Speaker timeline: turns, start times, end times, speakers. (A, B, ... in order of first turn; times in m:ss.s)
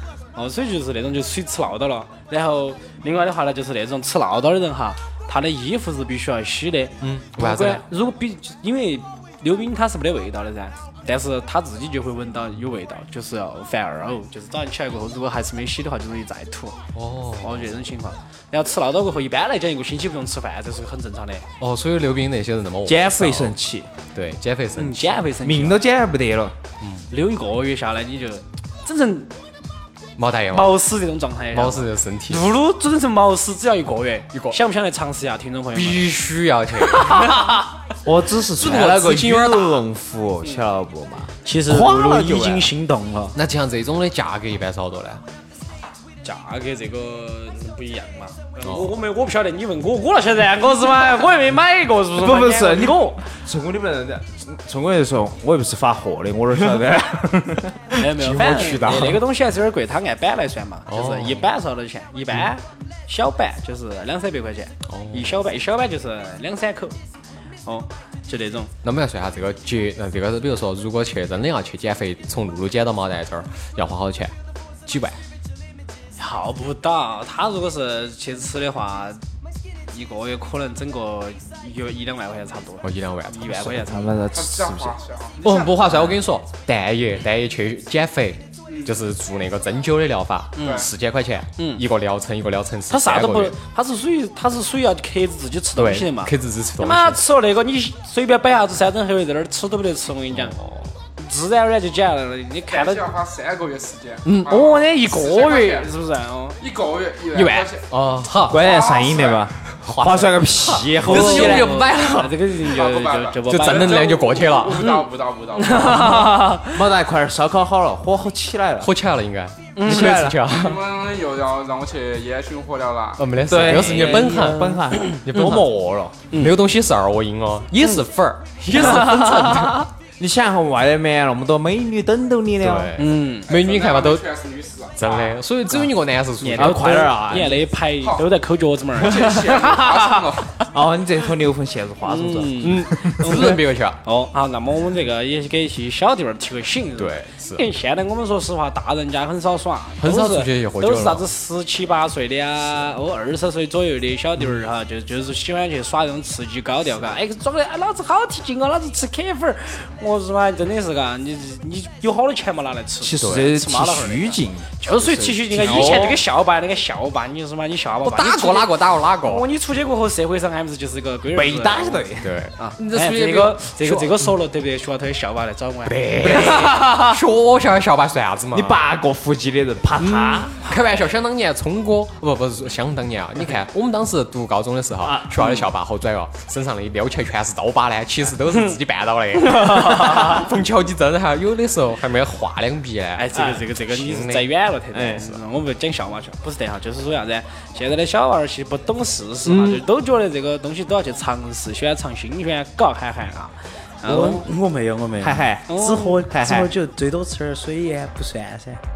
0:00.3-0:16.8 A
0:07.0-0:07.8 B
0:16.9-0:17.8 B
0:17.4-0:21.4 A
0:21.6-0:23.6 B
0:22.8-0:23.9 C
0:24.1-0:25.2 B
0:24.7-0:25.8 A
0:25.4-0:26.5 C
0:26.8-0:27.1 B
0:27.1-0:29.3 A
0:30.2-0:30.8 B
0:30.5-0:36.1 A
0:31.5-0:32.6 B
0:34.3-0:34.6 B
0:35.7-0:37.5 B
0:36.9-0:37.6 A
0:38.0-0:42.7 C
0:38.4-0:39.8 B
0:41.4-0:43.4 D
0:43.3-0:45.2 B
0:46.2-0:53.2 A
0:48.6-0:48.9 B
0:52.2-0:59.1 C
0:57.9-1:07.0 A
0:58.2-0:59.2 B
1:00.9-1:01.5 B
1:04.9-1:05.3 B
1:07.6-1:08.7 A
1:08.8-1:14.3 B
1:14.8-1:15.2 B
1:16.2-1:19.2 A
1:19.9-1:24.2 A
1:22.8-1:23.9 B
1:23.8-1:25.0 C
1:24.3-1:26.1 E
1:25.4-1:33.6 B
1:28.7-1:28.9 E
1:30.6-1:30.9 A
1:30.6-1:30.9 E
1:31.6-1:31.8 A
1:32.9-1:43.1 A
1:35.8-1:37.2 B
1:42.7-1:45.9 E
1:44.4-1:46.6 A
1:46.6-1:48.0 E
1:47.3-1:48.6 B
1:48.5-1:51.8 C
1:48.5-1:49.5 E
1:49.7-1:52.4 B
1:51.0-1:54.1 A
1:52.6-1:56.3 E
1:53.5-1:55.0 B
1:55.6-1:56.8 A
1:56.6-1:58.9 C
1:58.8-2:00.9 B
1:59.7-2:00.2 A
1:59.8-2:00.4 C
2:00.5-2:04.2 E
2:03.2-2:05.7 B
2:03.5-2:06.2 C
2:06.3-2:09.9 B
2:07.8-2:08.0 A
2:08.7-2:09.5 A
2:08.7-2:12.9 C
2:12.6-2:14.3 B
2:13.0-2:13.5 A
2:13.5-2:15.4 E
2:15.0-2:17.1 B
2:16.4-2:20.3 A
2:16.5-2:17.7 C
2:18.0-2:18.3 E
2:19.0-2:20.6 E
2:20.6-2:23.6 C
2:22.0-2:57.2 A
2:22.6-2:24.0 B
2:27.0-2:27.6 B
2:30.0-2:31.2 B
2:43.0-2:46.2 C
2:43.2-2:43.5 B
2:45.6-2:46.2 B
2:48.0-2:49.4 B
2:51.3-2:52.3 C
2:52.2-2:54.3 B
2:55.8-2:58.8 B
2:58.5-3:00.6 C
3:00.0-3:14.5 B
3:05.0-3:05.6 C
3:09.4-3:10.5 A
3:13.2-3:24.5 A
3:13.3-3:13.6 C
3:14.9-3:15.3 C
3:19.4-3:19.8 B
3:24.0-3:28.8 D
3:25.2-3:26.7 C
3:25.7-3:26.2 A